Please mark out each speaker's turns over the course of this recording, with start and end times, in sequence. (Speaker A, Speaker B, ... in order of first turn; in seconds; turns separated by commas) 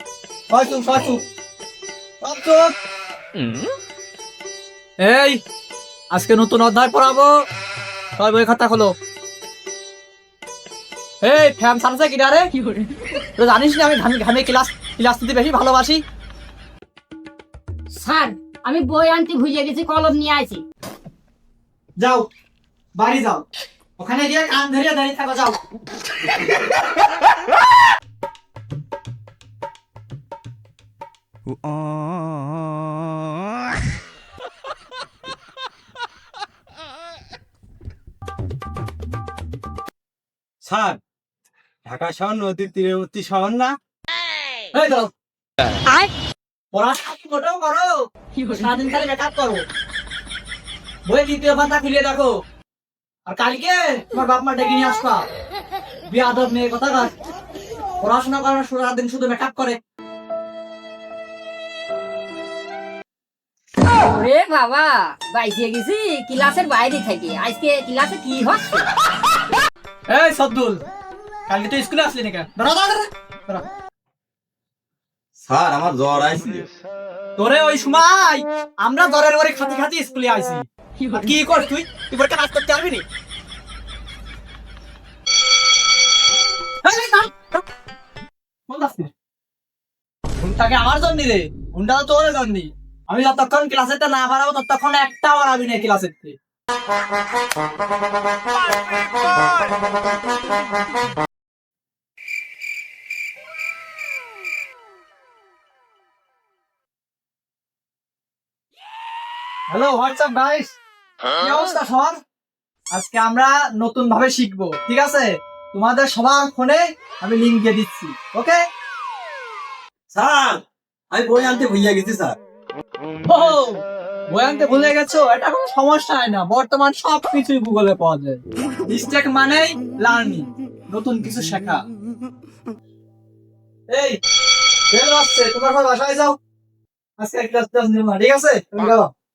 Speaker A: 0.5-1.2, Speaker A: 2.2-2.7, Speaker A: 5.0-5.4, Speaker A: 6.1-7.3, Speaker A: 8.2-8.9, Speaker A: 11.2-12.5, Speaker B: 12.5-13.0, Speaker A: 13.4-16.0, Speaker B: 17.9-20.6, Speaker A: 22.0-22.3, Speaker A: 22.9-23.4, Speaker A: 24.0-25.6, Speaker C: 40.6-41.0, Speaker C: 41.9-43.8, Speaker A: 44.7-45.1, Speaker A: 46.7-48.0, Speaker A: 48.5-49.6, Speaker A: 51.1-52.3, Speaker A: 53.3-55.2, Speaker A: 56.1-57.1, Speaker A: 58.0-59.8, Speaker B: 64.0-68.9, Speaker A: 70.1-70.8, Speaker A: 71.5-73.6, Speaker C: 75.4-76.7, Speaker A: 77.4-83.0, Speaker A: 86.8-87.6, Speaker A: 88.7-89.1, Speaker A: 90.4-96.4, Speaker A: 109.7-110.8, Speaker A: 111.4-112.2, Speaker A: 112.9-118.6, Speaker C: 120.1-122.4, Speaker A: 123.3-131.9, Speaker A: 133.9-134.2, Speaker A: 134.9-136.4, Speaker A: 137.2-139.1